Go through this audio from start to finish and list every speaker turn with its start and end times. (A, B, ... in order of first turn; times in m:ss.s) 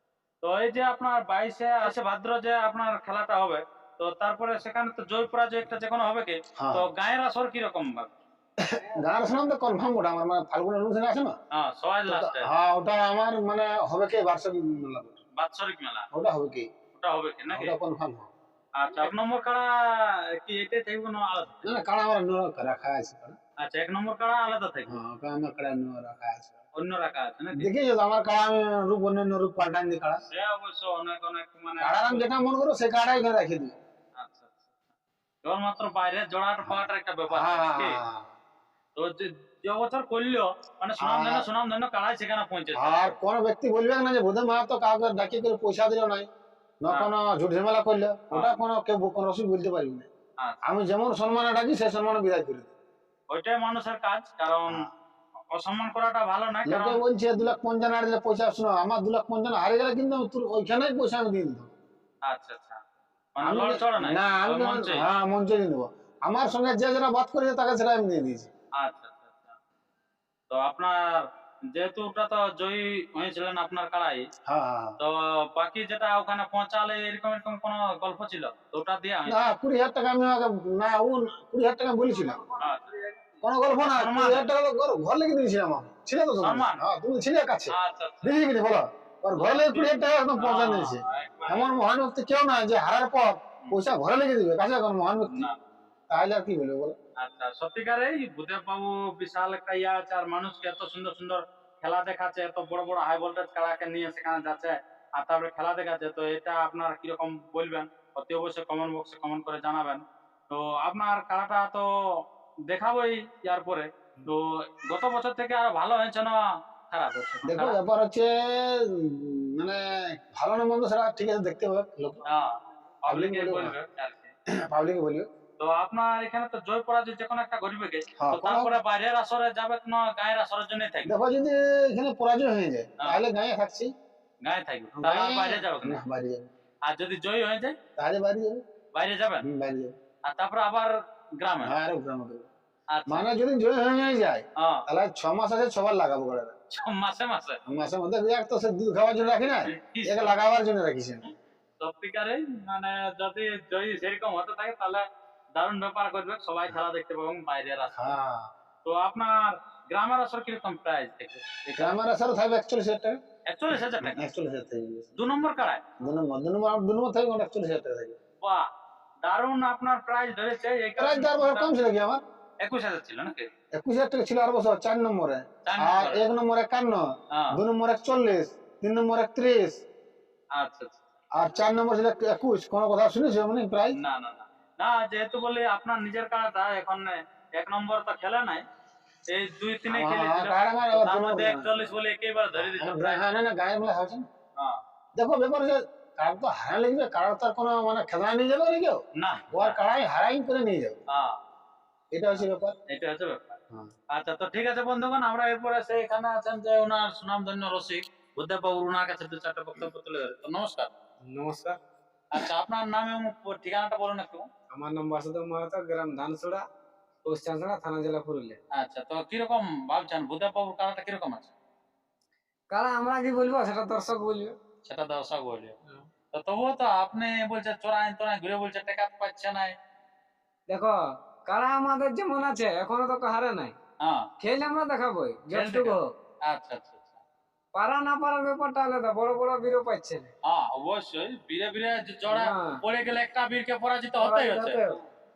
0:00.4-0:08.2 A
0:06.6-0:06.9 B
0:08.6-0:11.4 B
0:11.5-0:12.5 A
0:12.1-0:15.2 B
0:15.4-0:16.0 A
0:16.1-0:16.7 B
0:16.9-0:17.7 A
0:17.5-0:18.3 B
0:18.8-0:21.7 A
0:21.6-0:23.4 B
0:23.6-0:25.0 A
0:24.9-0:26.6 B
0:26.7-0:27.7 A
0:27.5-0:30.2 B
0:30.3-0:32.3 A
0:31.8-0:33.7 B
0:34.2-0:34.7 A
0:35.4-0:38.0 A
0:36.6-0:38.3 B
0:39.0-0:43.1 A
0:41.0-0:41.5 B
0:42.7-0:46.3 B
0:46.8-0:50.1 B
0:48.3-0:48.6 A
0:50.6-0:52.7 B
0:53.3-0:54.9 A
0:55.5-0:57.0 A
0:56.6-1:01.7 B
1:02.3-1:02.8 A
1:03.4-1:05.0 A
1:03.4-1:08.5 B
1:08.8-1:09.5 A
1:10.5-1:11.2 A
1:11.7-1:14.3 A
1:14.4-1:15.0 B
1:15.0-1:19.4 A
1:19.3-1:22.4 B
1:22.6-1:24.5 A
1:23.4-1:35.5 B
1:26.4-1:26.8 A
1:27.7-1:28.4 A
1:29.3-1:31.7 A
1:35.3-1:35.6 A
1:36.1-1:37.0 B
1:37.2-1:51.9 A
1:52.7-1:57.8 A
1:57.4-2:02.2 B
2:02.2-2:04.3 A
2:03.1-2:03.7 B
2:04.5-2:05.3 B
2:05.6-2:11.1 A
2:08.2-2:08.8 B
2:11.1-2:13.9 B
2:14.4-2:16.0 A
2:15.0-2:16.5 B
2:16.8-2:17.8 A
2:18.0-2:18.6 B
2:18.9-2:19.4 A
2:19.4-2:20.0 B
2:20.2-2:21.7 A
2:21.6-2:22.5 B
2:22.9-2:23.3 A
2:23.1-2:26.5 B
2:24.6-2:24.8 A
2:26.7-2:27.6 A
2:27.6-2:31.2 B
2:29.6-2:30.3 A
2:31.8-2:35.0 A
2:35.6-2:38.1 A
2:37.9-2:38.5 B
2:38.8-2:42.0 A
2:41.8-2:43.2 B
2:43.5-2:44.2 A
2:43.8-2:45.1 B
2:45.2-2:45.8 A
2:46.0-2:48.2 B
2:48.4-2:48.7 A
2:49.2-2:51.7 A
2:51.0-2:52.2 B
2:52.6-2:53.5 A
2:53.7-2:59.8 B
2:55.6-2:56.3 A
3:00.5-3:01.1 A
3:01.3-3:04.0 B
3:03.9-3:08.6 A
3:09.3-3:13.2 A
3:09.9-3:11.7 B
3:12.5-3:14.3 B
3:15.2-3:21.0 B
3:19.2-3:19.8 A
3:21.1-3:21.4 A
3:22.1-3:22.7 B
3:22.9-3:23.6 A
3:24.1-3:30.9 A
3:31.2-3:31.8 C
3:32.3-3:34.5 A
3:34.7-3:36.6 C
3:37.2-3:38.6 C
3:38.7-3:41.5 A
3:42.7-3:44.6 C
3:44.8-3:45.7 A
3:46.3-3:49.8 A
3:50.7-3:53.8 C
3:54.0-3:54.2 A
3:54.4-3:56.1 C
3:55.5-3:57.2 A
3:57.7-4:00.3 C
4:00.4-4:04.8 A
4:02.3-4:02.8 C
4:04.2-4:05.0 C